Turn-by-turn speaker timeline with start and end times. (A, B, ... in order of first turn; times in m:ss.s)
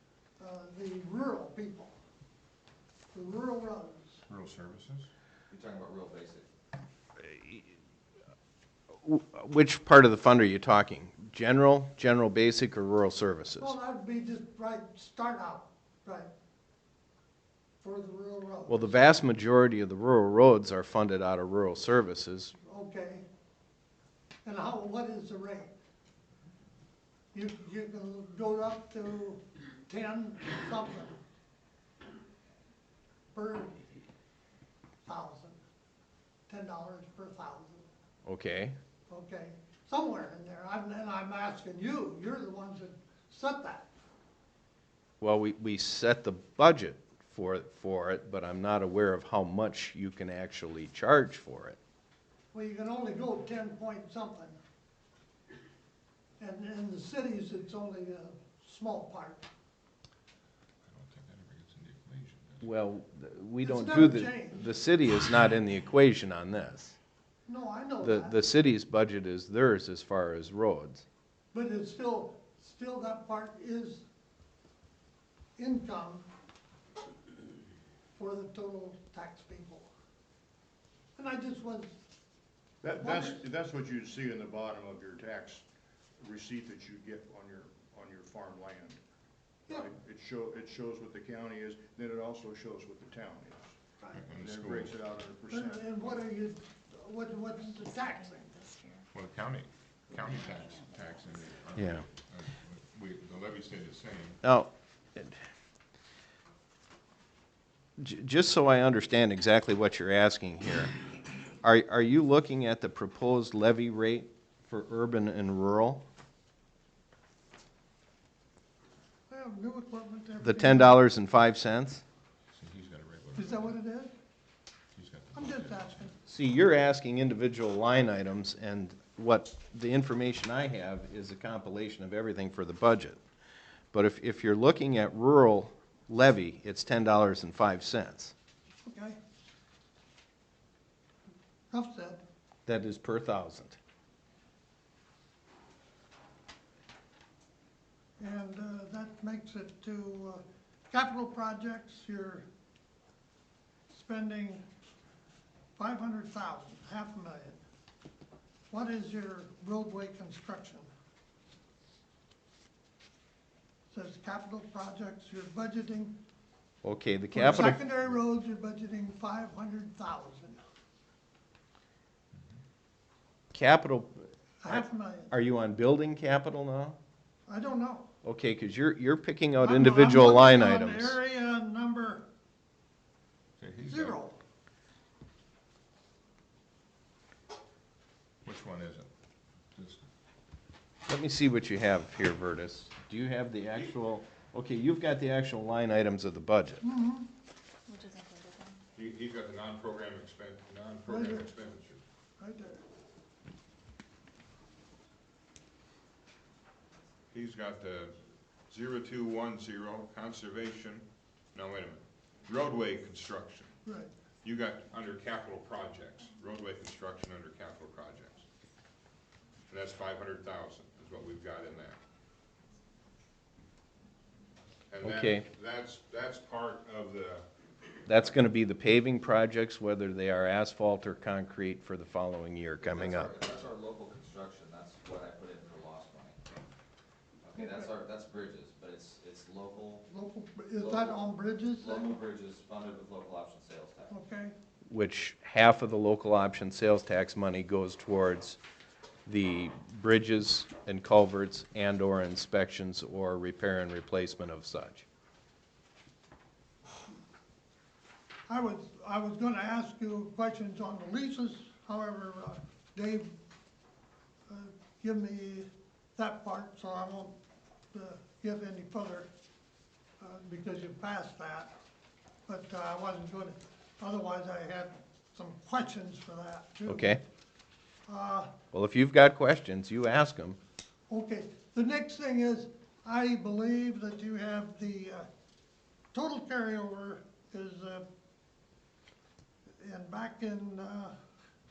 0:00.4-0:02.0 A
0:03.1-0:04.2 A
0:04.3-0:05.1 B
0:05.5-0:06.5 C
0:07.2-0:07.7 D
0:09.0-0:13.8 D
0:13.6-0:16.3 A
0:17.8-0:19.1 A
0:18.7-0:22.5 D
0:22.6-0:23.2 A
0:24.4-0:25.8 A
0:27.3-0:31.2 A
0:33.3-0:33.9 A
0:35.0-0:35.6 A
0:36.5-0:37.9 A
0:38.2-0:38.8 D
0:39.1-0:43.9 A
0:45.2-0:51.8 D
0:52.5-0:54.6 A
0:56.4-0:59.5 A
1:00.8-1:02.7 B
1:02.6-1:07.0 D
1:03.6-1:04.7 A
1:07.5-1:08.4 A
1:08.0-1:11.0 D
1:11.5-1:14.0 A
1:15.6-1:16.3 A
1:18.2-1:19.9 A
1:21.2-1:21.9 A
1:22.8-1:25.6 E
1:23.0-1:23.4 A
1:26.2-1:29.0 E
1:29.7-1:33.8 E
1:34.1-1:35.0 B
1:34.3-1:36.2 E
1:35.5-1:38.6 A
1:37.6-1:39.1 F
1:39.1-1:44.4 B
1:40.1-1:41.7 F
1:41.8-1:42.0 D
1:44.4-1:45.4 D
1:48.0-1:50.9 D
1:51.6-1:56.0 D
1:59.3-2:01.0 A
2:00.4-2:02.0 D
2:02.5-2:03.7 B
2:03.4-2:04.1 A
2:04.9-2:06.1 B
2:05.3-2:06.1 A
2:06.3-2:13.2 D
2:13.9-2:18.3 D
2:18.8-2:19.2 A
2:21.7-2:22.2 A
2:22.7-2:23.8 D
2:28.2-2:32.5 A
2:33.9-2:34.6 A
2:35.8-2:37.6 A
2:38.7-2:40.9 A
2:43.9-2:46.2 A
2:46.8-2:47.8 D
2:47.3-2:50.6 A
2:53.5-2:57.0 D
2:54.6-2:55.3 A
2:57.5-2:58.1 A
2:58.2-3:01.2 D
2:59.6-3:02.3 A
3:03.6-3:04.2 B
3:03.8-3:04.4 A
3:08.4-3:09.1 B
3:09.7-3:10.0 B
3:11.1-3:16.8 D
3:16.8-3:17.3 A
3:17.9-3:18.8 F
3:18.9-3:22.0 B
3:21.1-3:21.5 A
3:22.4-3:22.8 A
3:27.3-3:28.2 B
3:28.7-3:33.7 B
3:33.8-3:34.1 A
3:34.4-3:38.4 B
3:39.7-3:42.0 B
3:44.9-3:47.5 B
3:45.0-3:45.4 D
3:48.1-3:53.3 D
3:52.8-3:56.4 C
3:57.4-4:00.0 C
3:57.6-3:57.9 A
4:00.1-4:02.2 A
4:00.8-4:01.2 C
4:01.8-4:04.1 C
4:04.1-4:04.5 A
4:04.9-4:08.6 D
4:09.3-4:15.0 D
4:18.5-4:23.3 A
4:24.5-4:27.4 A
4:27.9-4:29.3 A
4:30.2-4:31.7 A
4:32.5-4:37.2 A
4:36.9-4:37.2 D
4:38.1-4:38.6 A
4:38.7-4:40.6 D
4:41.1-4:45.3 A
4:46.1-4:48.1 A
4:49.8-4:51.2 A